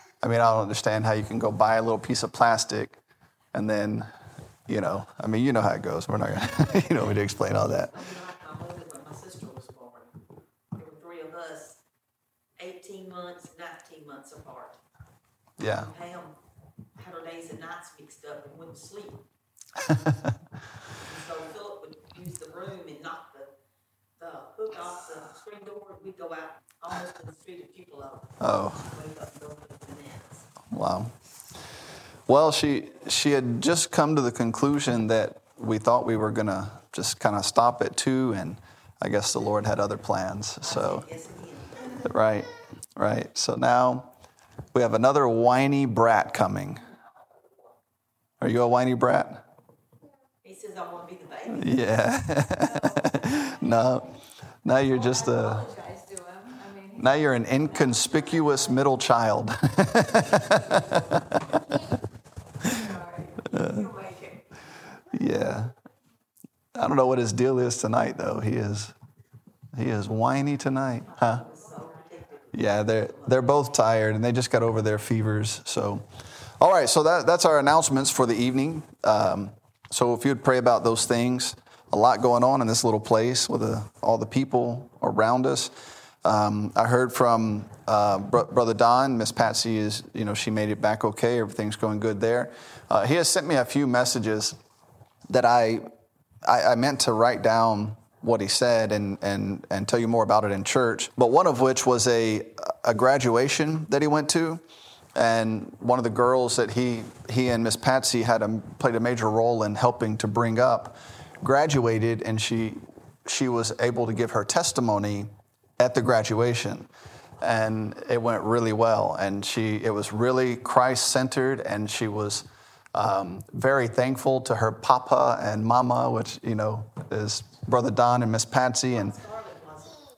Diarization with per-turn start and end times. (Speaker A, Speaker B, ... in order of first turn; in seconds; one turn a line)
Speaker A: 0.2-3.0
Speaker A: 3.5-4.1
Speaker A: 4.7-7.9
Speaker B: 7.9-10.1
Speaker B: 10.8-11.8
Speaker B: 12.6-14.8
Speaker A: 15.6-15.9
Speaker B: 15.7-16.4
Speaker B: 17.0-19.2
Speaker B: 21.0-23.5
Speaker B: 24.2-30.5
Speaker A: 28.4-28.9
Speaker A: 30.7-31.1
Speaker A: 32.3-41.0
Speaker B: 40.6-42.0
Speaker A: 42.0-44.1
Speaker A: 44.7-46.8
Speaker A: 48.4-49.4
Speaker B: 50.4-51.8
Speaker A: 51.5-54.1
Speaker C: 52.6-53.9
Speaker A: 54.6-55.7
Speaker C: 54.9-58.8
Speaker A: 57.0-61.6
Speaker C: 60.5-61.0
Speaker C: 62.6-64.4
Speaker A: 63.5-63.9
Speaker A: 65.1-65.7
Speaker A: 66.8-68.9
Speaker A: 69.7-71.4
Speaker B: 71.2-73.5
Speaker A: 72.5-76.0
Speaker A: 76.6-85.7
Speaker A: 86.2-94.6
Speaker A: 95.3-95.8
Speaker A: 96.4-104.6
Speaker A: 105.2-116.9
Speaker A: 117.4-129.2
Speaker B: 128.9-130.0